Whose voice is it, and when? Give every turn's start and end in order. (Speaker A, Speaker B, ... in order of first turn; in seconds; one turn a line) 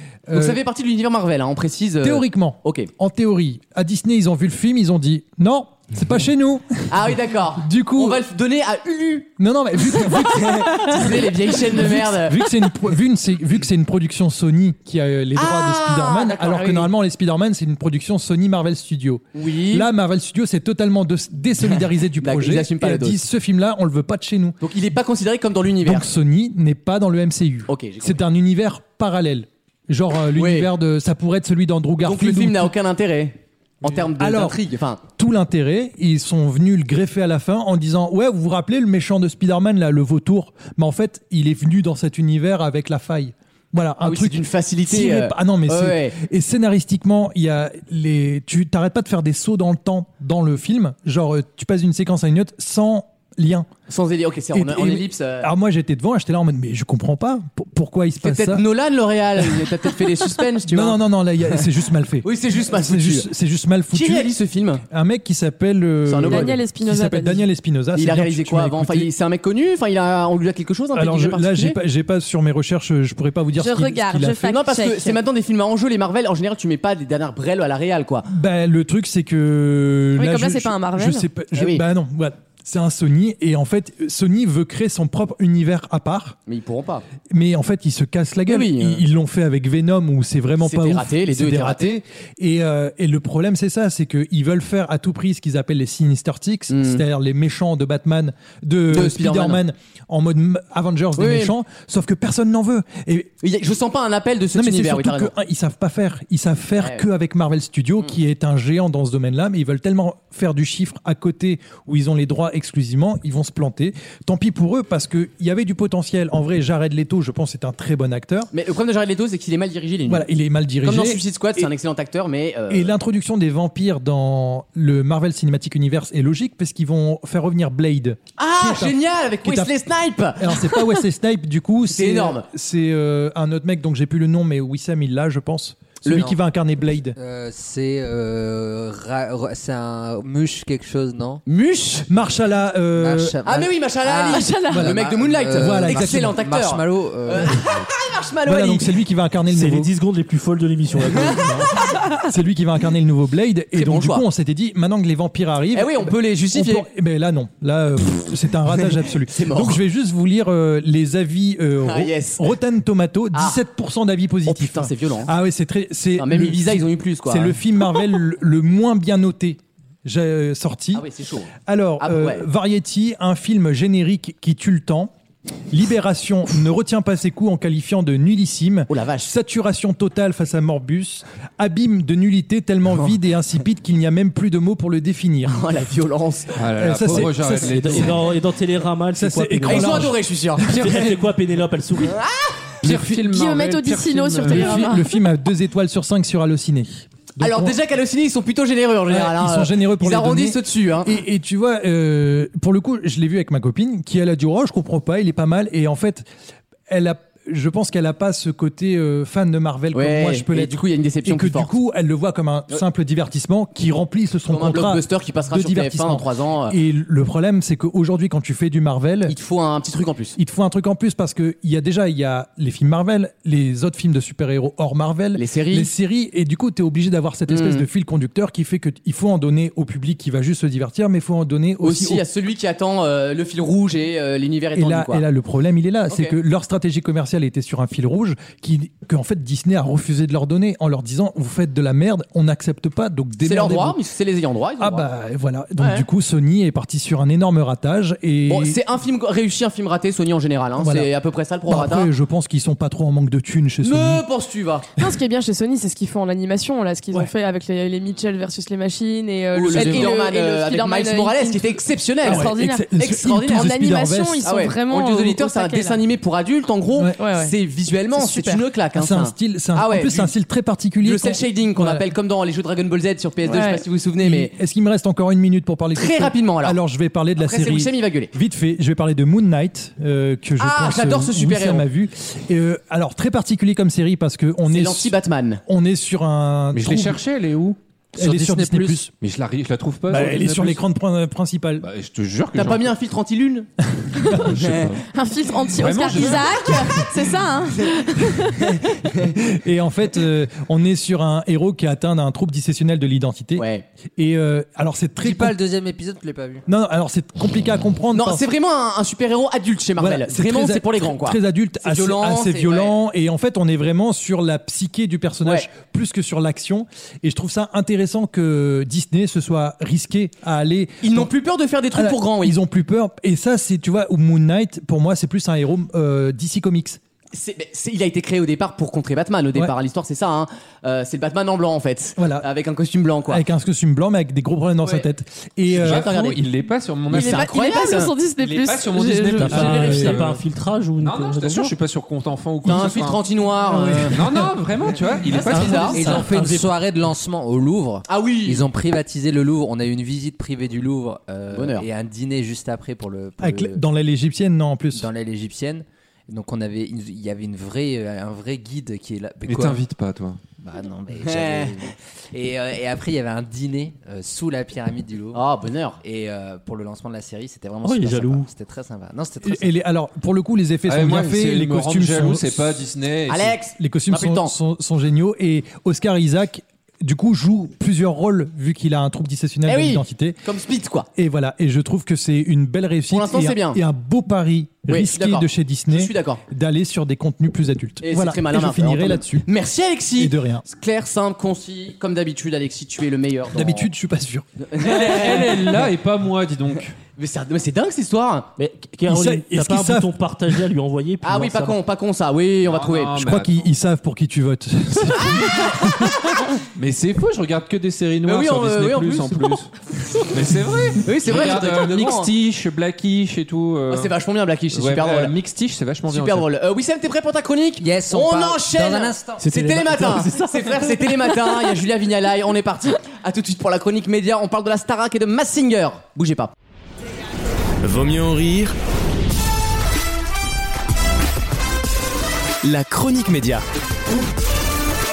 Speaker A: 0.3-0.6
Speaker B: 0.3-2.9
Speaker A: 2.0-8.2
Speaker B: 6.9-9.3
Speaker A: 9.4-24.6
Speaker B: 9.8-12.5
Speaker B: 15.4-16.9
Speaker B: 19.4-19.9
Speaker B: 21.7-23.2
Speaker B: 24.6-26.1
Speaker A: 25.8-32.7
Speaker B: 27.7-28.2
Speaker B: 30.4-30.7
Speaker B: 32.0-35.0
Speaker A: 33.9-53.7
Speaker B: 44.0-46.2
Speaker B: 53.9-55.5
Speaker A: 54.5-58.6
Speaker B: 58.2-61.6
Speaker A: 59.4-59.7
Speaker A: 60.7-64.3
Speaker B: 62.2-63.3
Speaker B: 63.9-64.8
Speaker A: 64.9-69.1
Speaker B: 66.0-66.5
Speaker C: 66.3-67.4
Speaker B: 68.0-71.8
Speaker A: 70.9-74.5
Speaker C: 73.6-75.2
Speaker B: 74.5-78.3
Speaker A: 78.3-86.4
Speaker C: 80.2-81.2
Speaker B: 81.5-81.8
Speaker B: 86.5-87.0
Speaker A: 87.3-103.3
Speaker B: 88.5-89.0
Speaker B: 90.6-91.9
Speaker B: 96.7-97.0
Speaker B: 98.9-99.6
Speaker B: 101.2-101.5
Speaker B: 103.4-105.3
Speaker A: 104.5-118.5
Speaker B: 106.8-107.0
Speaker B: 118.5-120.2
Speaker A: 120.1-121.7
Speaker B: 120.8-122.9
Speaker A: 122.7-129.7
Speaker B: 128.4-130.6
Speaker A: 130.4-137.2
Speaker B: 131.9-132.5
Speaker D: 136.1-136.3
Speaker D: 137.2-141.4
Speaker B: 141.5-142.1
Speaker A: 142.1-143.4
Speaker D: 143.0-147.8
Speaker B: 143.4-148.9
Speaker C: 144.3-144.9
Speaker A: 144.7-145.0
Speaker A: 145.5-146.4
Speaker A: 148.4-149.9
Speaker E: 149.5-151.8
Speaker C: 151.8-152.2
Speaker A: 152.2-171.1
Speaker B: 153.8-154.2
Speaker B: 155.7-156.9
Speaker B: 158.9-159.8
Speaker B: 161.8-162.5
Speaker B: 163.3-163.6
Speaker B: 164.5-165.3
Speaker B: 166.2-167.6
Speaker B: 170.9-172.4
Speaker A: 171.7-175.1
Speaker A: 175.7-185.8
Speaker B: 178.9-179.3
Speaker B: 185.5-187.6
Speaker F: 186.6-188.3
Speaker A: 186.8-188.2
Speaker E: 187.6-190.1
Speaker A: 189.2-191.0
Speaker B: 189.7-191.2
Speaker E: 190.7-192.2
Speaker B: 192.0-192.7
Speaker A: 192.8-193.1
Speaker F: 192.8-195.0
Speaker C: 193.2-195.2
Speaker A: 194.4-197.8
Speaker B: 197.4-201.2
Speaker A: 199.1-206.3
Speaker A: 206.9-219.3
Speaker B: 209.9-211.7
Speaker B: 214.5-216.8
Speaker B: 219.3-220.4
Speaker A: 220.4-232.2
Speaker B: 225.3-225.9
Speaker B: 227.5-227.8
Speaker B: 231.8-235.2
Speaker A: 234.8-244.0
Speaker B: 236.1-236.3
Speaker B: 243.4-245.1
Speaker A: 244.8-248.8
Speaker B: 245.8-246.1
Speaker B: 248.5-252.1
Speaker A: 250.8-251.1
Speaker A: 251.7-254.2
Speaker B: 253.8-254.9
Speaker C: 255.0-266.0
Speaker B: 259.5-263.7
Speaker A: 259.7-260.1
Speaker A: 262.2-264.5
Speaker B: 264.4-270.3
Speaker C: 267.2-267.6
Speaker C: 268.1-268.6
Speaker A: 268.9-272.1
Speaker B: 271.0-274.5
Speaker C: 273.5-273.8
Speaker A: 274.2-285.1
Speaker B: 275.9-276.8
Speaker B: 277.4-278.3
Speaker B: 280.6-281.9
Speaker B: 284.7-285.6
Speaker A: 285.7-287.2
Speaker F: 286.7-290.8
Speaker A: 288.2-289.1
Speaker D: 288.2-288.6
Speaker A: 290.1-291.9
Speaker F: 291.8-292.9
Speaker B: 292.5-293.7
Speaker A: 294.1-294.8
Speaker C: 294.2-294.5
Speaker F: 294.4-295.0
Speaker B: 294.5-295.0
Speaker C: 295.1-298.7
Speaker F: 295.7-297.0
Speaker B: 298.6-299.4
Speaker A: 299.2-303.6
Speaker B: 303.6-303.9
Speaker A: 304.2-305.6
Speaker D: 305.2-306.6
Speaker A: 306.7-308.4
Speaker B: 308.1-312.9
Speaker A: 310.0-321.3
Speaker B: 321.0-322.6
Speaker A: 321.9-327.0
Speaker B: 327.3-333.4
Speaker A: 332.2-332.5
Speaker A: 333.3-336.4
Speaker B: 335.7-336.4
Speaker F: 335.8-337.5
Speaker B: 337.1-338.1
Speaker C: 337.1-340.0
Speaker F: 338.4-340.4
Speaker E: 339.4-341.8
Speaker A: 339.5-340.2
Speaker F: 341.0-343.2
Speaker B: 342.6-344.4
Speaker A: 343.7-344.5
Speaker F: 344.0-346.2
Speaker B: 345.3-346.0
Speaker E: 345.5-346.7
Speaker D: 345.9-353.8
Speaker B: 348.1-348.7
Speaker B: 351.5-351.9
Speaker A: 353.4-355.1
Speaker D: 354.9-359.8
Speaker F: 359.5-360.4
Speaker D: 360.6-365.4
Speaker B: 361.2-361.9
Speaker B: 365.3-366.0
Speaker D: 366.0-369.7
Speaker E: 367.8-368.5
Speaker A: 369.4-372.8
Speaker F: 370.9-373.6
Speaker B: 373.3-374.5
Speaker A: 373.8-380.4
Speaker B: 379.7-381.1
Speaker A: 381.2-389.5
Speaker B: 383.1-383.8
Speaker B: 384.9-386.4
Speaker B: 388.0-393.9
Speaker A: 390.2-390.6
Speaker A: 393.5-394.5
Speaker B: 394.6-395.9
Speaker F: 394.8-396.9
Speaker B: 397.2-398.5
Speaker E: 398.6-401.8
Speaker A: 399.1-400.6
Speaker B: 401.2-403.1
Speaker F: 402.6-403.7
Speaker A: 403.2-406.3
Speaker B: 405.2-406.1
Speaker F: 406.8-414.1
Speaker B: 408.3-409.6
Speaker B: 411.0-412.3
Speaker B: 413.9-415.3
Speaker F: 414.7-416.5
Speaker B: 416.1-426.5
Speaker D: 417.8-419.5
Speaker E: 419.4-421.5
Speaker G: 427.8-428.8
Speaker G: 432.6-433.6